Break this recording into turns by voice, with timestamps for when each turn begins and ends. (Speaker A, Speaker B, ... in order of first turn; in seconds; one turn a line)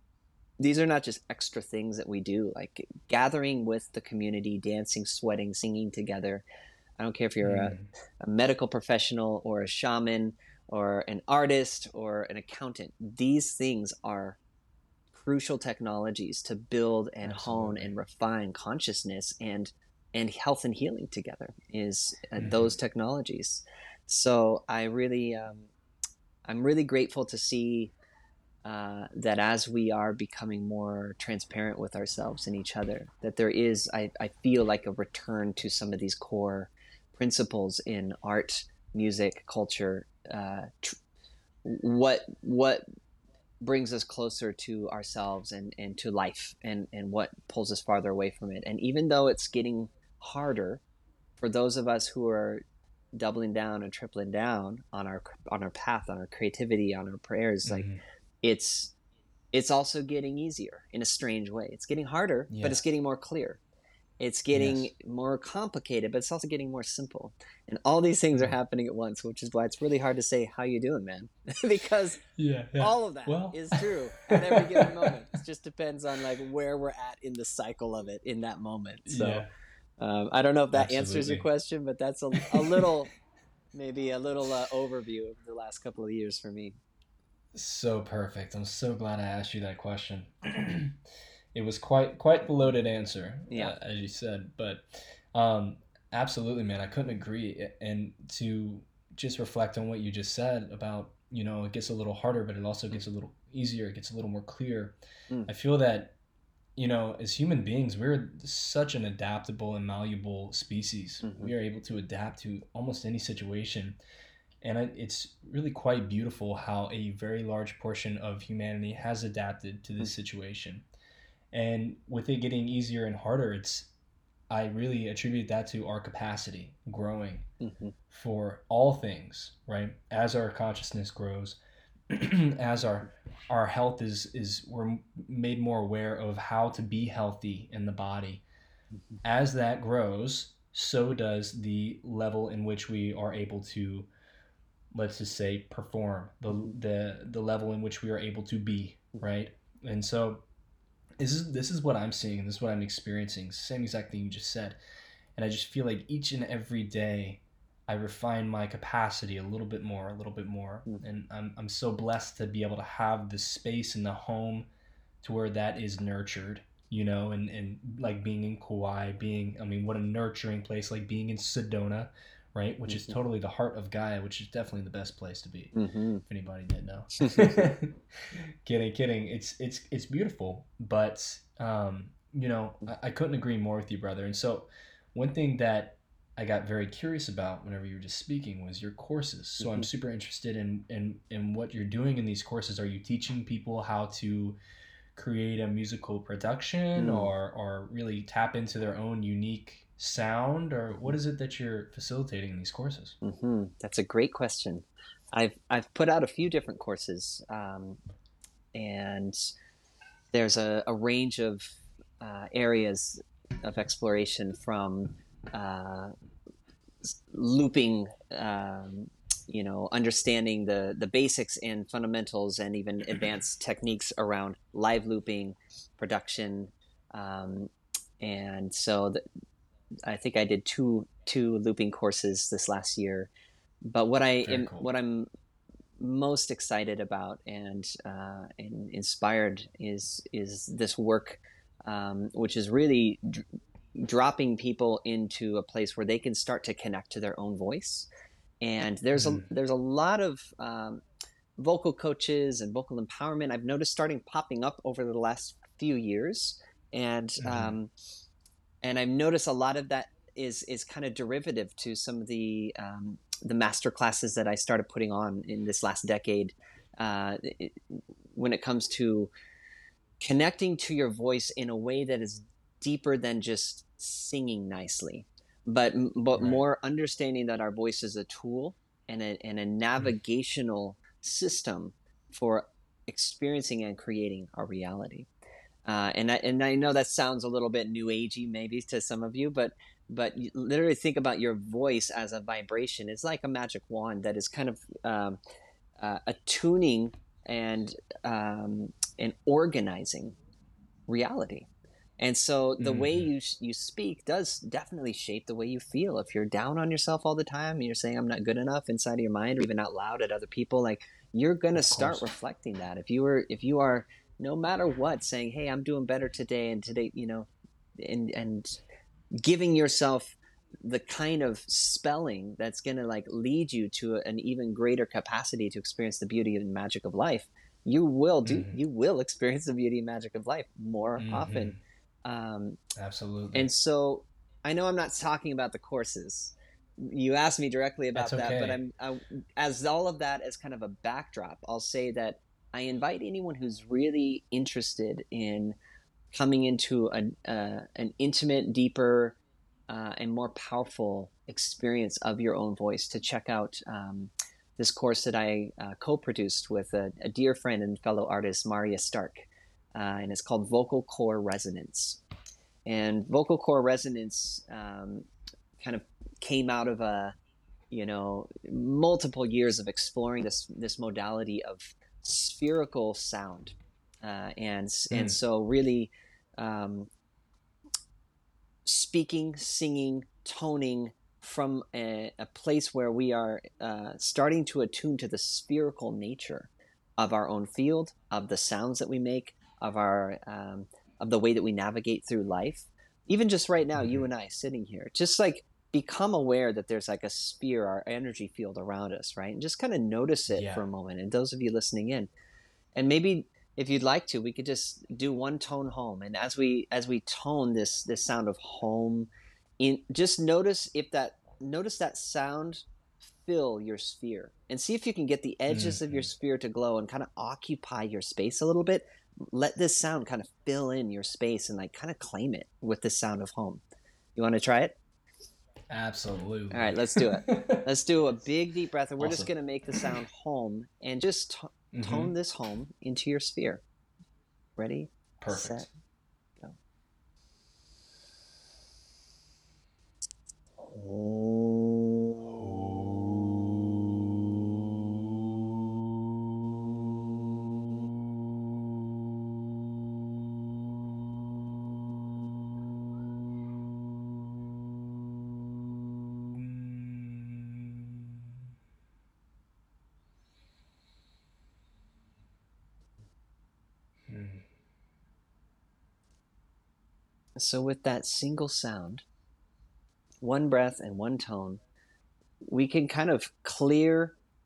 Speaker A: 0.6-6.4
Speaker A: 7.0-14.4
Speaker B: 7.4-7.9
Speaker A: 15.1-25.7
Speaker B: 17.2-17.9
Speaker B: 22.4-22.7
Speaker A: 26.4-27.9
Speaker A: 28.6-41.0
Speaker A: 41.6-42.8
Speaker A: 43.6-50.8
Speaker A: 51.4-57.9
Speaker B: 57.6-58.0
Speaker A: 58.4-58.9
Speaker A: 59.5-63.6
Speaker B: 62.5-62.8
Speaker A: 64.2-72.2
Speaker B: 64.5-64.9
Speaker B: 72.3-75.2
Speaker A: 72.8-79.5
Speaker B: 79.0-79.5
Speaker A: 80.0-83.1
Speaker B: 80.7-81.5
Speaker B: 82.4-82.9
Speaker A: 83.7-86.8
Speaker B: 87.5-91.0
Speaker B: 91.5-106.2
Speaker A: 93.5-93.8
Speaker B: 106.8-114.0
Speaker A: 111.2-111.5
Speaker B: 114.6-120.8
Speaker B: 121.5-123.9
Speaker B: 124.5-127.5
Speaker A: 127.6-128.0
Speaker B: 128.1-131.6
Speaker B: 132.1-138.4
Speaker B: 139.2-144.1
Speaker B: 144.9-150.4
Speaker B: 151.2-154.8
Speaker B: 155.4-164.7
Speaker B: 165.2-175.7
Speaker A: 172.9-173.1
Speaker A: 175.7-176.2
Speaker B: 176.2-194.6
Speaker A: 177.2-177.5
Speaker A: 189.6-189.9
Speaker B: 195.1-203.2
Speaker A: 197.0-197.3
Speaker A: 203.2-208.0
Speaker A: 208.7-209.5
Speaker A: 210.3-216.1
Speaker A: 217.0-229.2
Speaker A: 230.1-233.3
Speaker A: 233.8-235.3
Speaker B: 234.4-234.9
Speaker A: 236.0-248.1
Speaker A: 248.6-251.0
Speaker B: 249.1-249.5
Speaker A: 251.6-257.9
Speaker B: 257.4-257.8
Speaker A: 258.8-269.3
Speaker A: 270.2-285.3
Speaker B: 276.3-276.6
Speaker A: 285.9-295.4
Speaker A: 296.0-300.4
Speaker A: 301.1-301.7
Speaker A: 302.2-318.8
Speaker B: 302.8-303.3
Speaker B: 311.7-312.2
Speaker A: 319.3-332.8
Speaker B: 328.4-328.8
Speaker B: 331.2-331.8
Speaker B: 332.9-333.7
Speaker A: 333.5-345.8
Speaker B: 338.1-338.8
Speaker A: 346.3-349.4
Speaker A: 349.9-362.2
Speaker A: 362.9-365.3
Speaker A: 365.8-367.3
Speaker A: 367.9-377.1
Speaker B: 375.1-375.4
Speaker A: 378.8-402.3
Speaker B: 393.9-394.2
Speaker B: 400.5-400.8
Speaker A: 402.9-423.8
Speaker B: 415.7-416.3
Speaker A: 424.4-424.9
Speaker B: 425.9-427.9
Speaker A: 426.7-433.8
Speaker B: 429.2-430.2
Speaker B: 431.9-432.3
Speaker A: 434.8-435.9
Speaker B: 435.4-435.9
Speaker A: 440.8-442.4
Speaker B: 442.5-443.6
Speaker B: 456.0-458.5
Speaker B: 464.3-464.6
Speaker A: 467.6-469.2
Speaker A: 470.4-471.8
Speaker A: 472.6-474.4